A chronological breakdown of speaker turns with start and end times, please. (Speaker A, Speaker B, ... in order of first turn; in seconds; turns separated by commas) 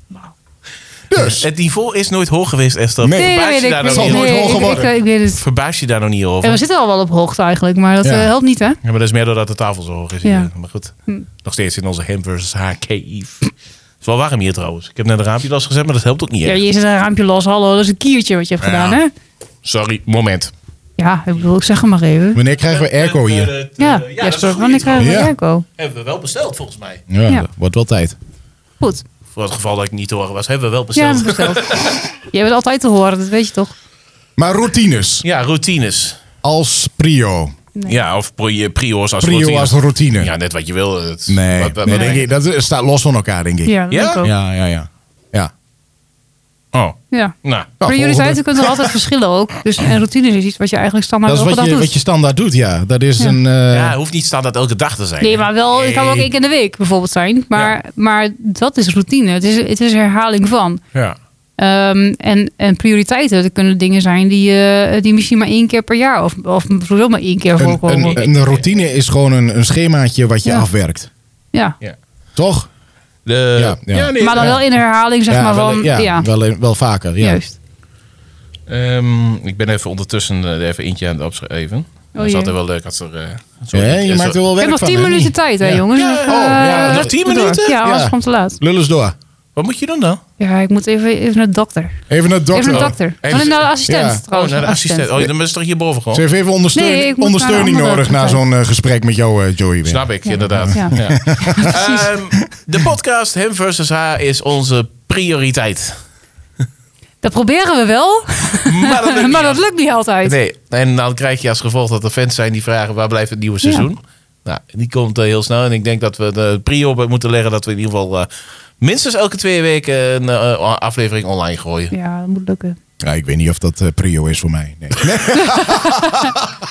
Speaker A: 1.1-1.4, Speaker B: 1.1-6.6, Speaker A: 3.0-4.9, Speaker C: 3.1-5.4, Speaker C: 6.4-8.8, Speaker A: 8.0-8.3, Speaker B: 8.8-13.5, Speaker C: 10.2-10.5, Speaker B: 14.0-16.6, Speaker C: 16.4-19.1, Speaker A: 18.6-19.0, Speaker B: 19.6-20.5, Speaker C: 21.0-22.4, Speaker A: 22.3-23.5, Speaker B: 22.7-27.0, Speaker C: 23.8-25.6, Speaker A: 25.0-25.3, Speaker A: 27.1-28.1, Speaker B: 29.3-32.0, Speaker C: 30.9-31.8, Speaker C: 32.3-33.7, Speaker A: 34.4-35.2, Speaker B: 35.2-36.2, Speaker A: 36.4-37.5, Speaker B: 37.9-42.2, Speaker A: 39.2-40.3, Speaker A: 41.3-45.5, Speaker C: 41.9-42.2, Speaker C: 43.6-44.3, Speaker B: 43.9-44.2, Speaker B: 46.7-47.7, Speaker C: 47.1-51.9, Speaker A: 47.8-48.9, Speaker A: 51.3-53.9, Speaker B: 53.7-56.3, Speaker C: 55.2-60.8, Speaker C: 61.6-68.2, Speaker A: 67.6-71.1, Speaker B: 68.1-68.6, Speaker A: 72.3-72.7, Speaker B: 73.2-74.6, Speaker A: 73.5-74.6, Speaker C: 74.2-76.3, Speaker A: 75.3-77.4, Speaker C: 77.2-77.6, Speaker B: 78.7-84.4, Speaker C: 82.1-82.5, Speaker A: 83.7-87.1, Speaker C: 84.6-88.6, Speaker B: 85.9-87.8, Speaker A: 87.8-89.1, Speaker B: 89.5-90.2, Speaker C: 90.4-92.0, Speaker A: 92.1-94.2, Speaker C: 92.5-95.2, Speaker B: 92.7-93.7, Speaker B: 94.3-96.2, Speaker A: 96.1-101.7, Speaker C: 96.7-98.4, Speaker B: 99.8-106.0, Speaker C: 100.2-102.1, Speaker C: 107.2-110.3, Speaker B: 108.7-109.6, Speaker B: 110.2-118.3, Speaker B: 118.8-121.9, Speaker C: 121.9-122.8, Speaker A: 123.0-126.5, Speaker C: 125.3-126.3